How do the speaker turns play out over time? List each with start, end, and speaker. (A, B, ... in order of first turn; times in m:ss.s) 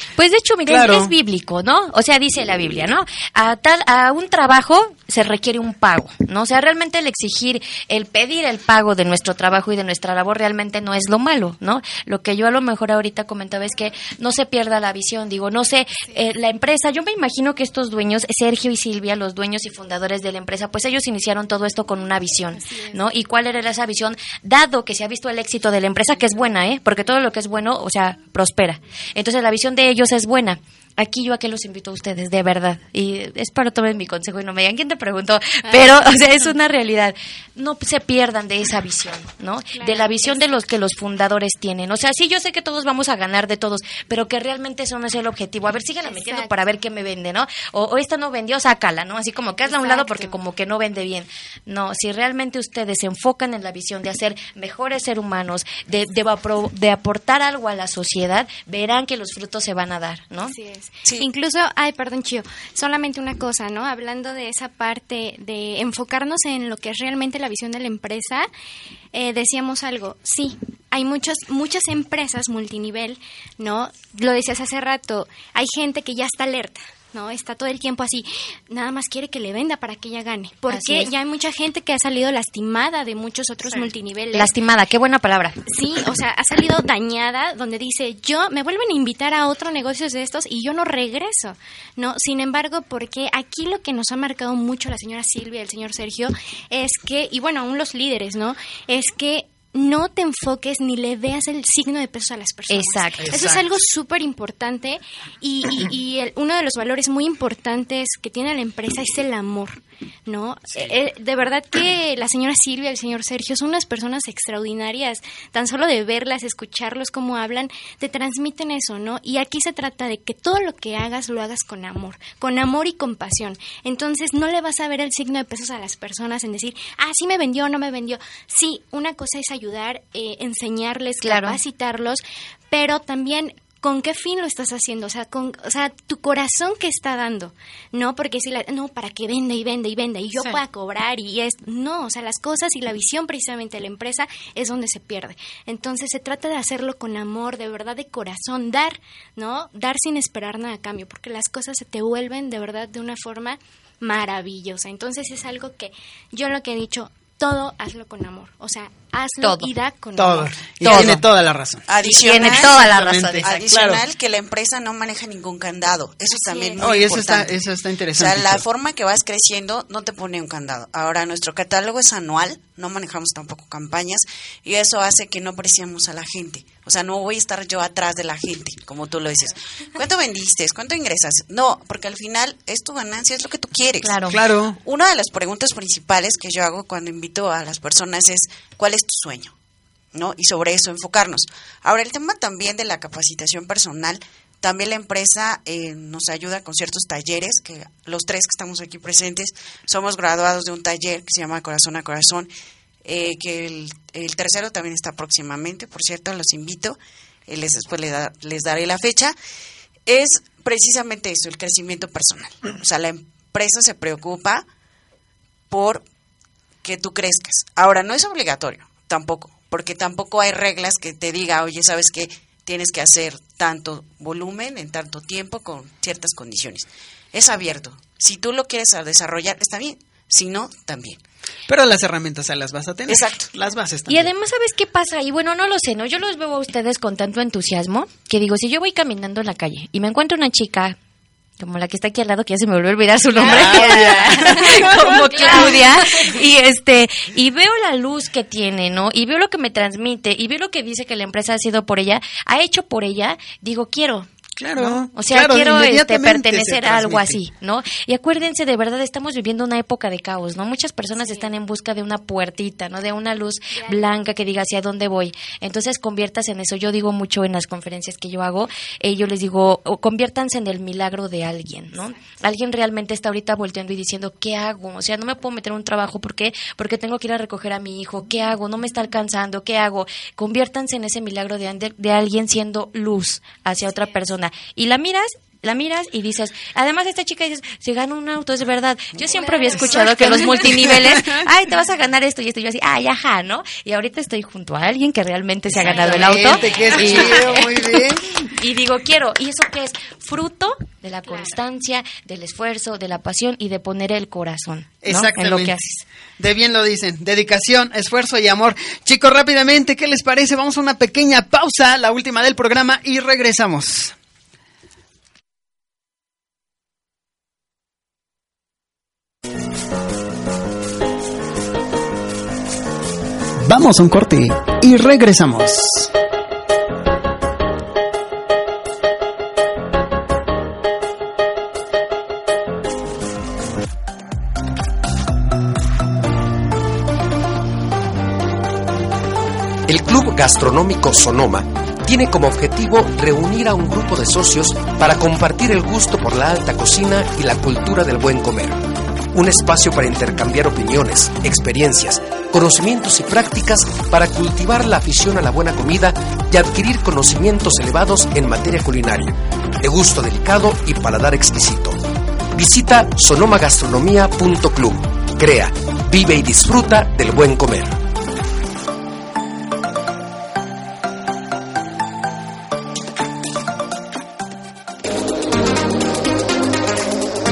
0:00.2-1:00.5 A
0:00.6-0:01.1 B
0:22.5-0:23.0 C
0:39.7-0:40.5 C
0:46.0-0:46.6 C
0:49.6-0:50.4 C
1:00.5-1:08.5 C
1:09.1-1:24.5 C
1:20.7-1:21.1 A
1:24.3-1:25.6 A
1:25.7-2:40.6 C
1:42.7-1:43.5 A
1:43.2-1:43.6 B
2:11.2-2:11.6 A
2:39.4-2:39.7 A
2:40.1-2:44.0 B
2:40.8-2:41.2 A
2:41.9-2:47.6 D
2:42.0-2:43.4 A
2:46.3-2:46.8 C
2:46.8-2:48.6 B
2:48.1-3:04.2 D
3:04.0-3:04.4 A
3:04.3-3:04.8 B
3:04.8-3:09.5 D
3:10.1-3:22.5 D
3:23.0-3:29.4 D
3:30.1-3:34.6 D
3:35.7-3:36.0 D
3:36.8-3:51.2 D
3:51.7-3:54.3 B
3:53.1-3:53.5 D
3:54.1-4:01.0 A
4:01.6-5:06.0 A
4:03.4-4:05.8 B
4:05.2-4:05.9 C
4:14.6-4:17.4 B
4:21.2-4:21.5 C
4:23.7-4:24.1 C
4:49.2-4:50.9 C
4:49.7-4:51.2 B
4:55.7-4:57.6 C
4:55.8-4:58.3 B
5:05.0-5:05.8 B
5:06.4-5:14.1 B
5:23.6-5:26.1 B
5:39.9-5:48.8 E
5:49.3-6:02.0 E
6:02.5-6:08.0 E